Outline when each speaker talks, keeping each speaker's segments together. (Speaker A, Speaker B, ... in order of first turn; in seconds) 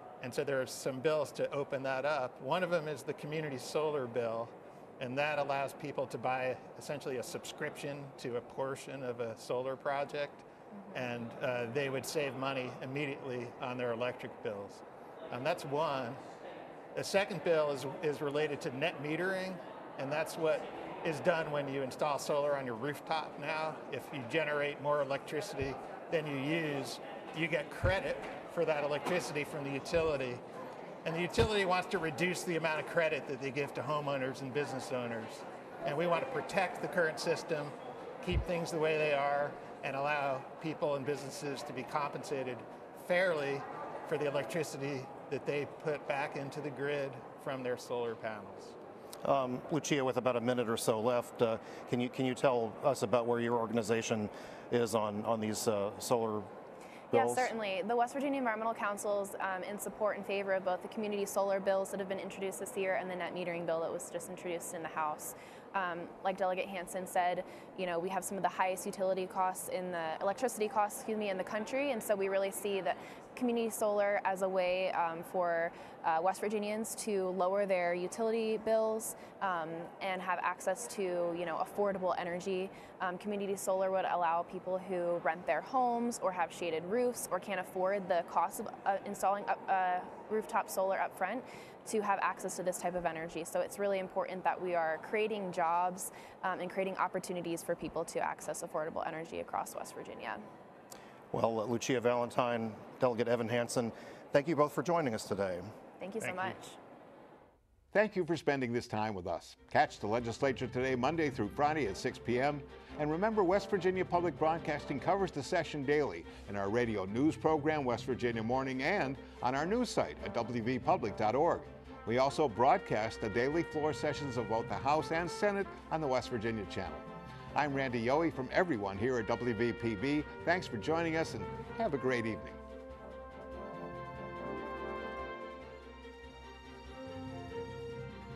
Speaker A: 0.2-16.2, 16.9-30.4, 31.0-48.8, 106.2-106.5
Speaker B: 49.2-56.5, 57.1-57.5, 101.3-105.7
Speaker C: 57.1-100.4, 106.0-106.8
Speaker D: 107.9-132.6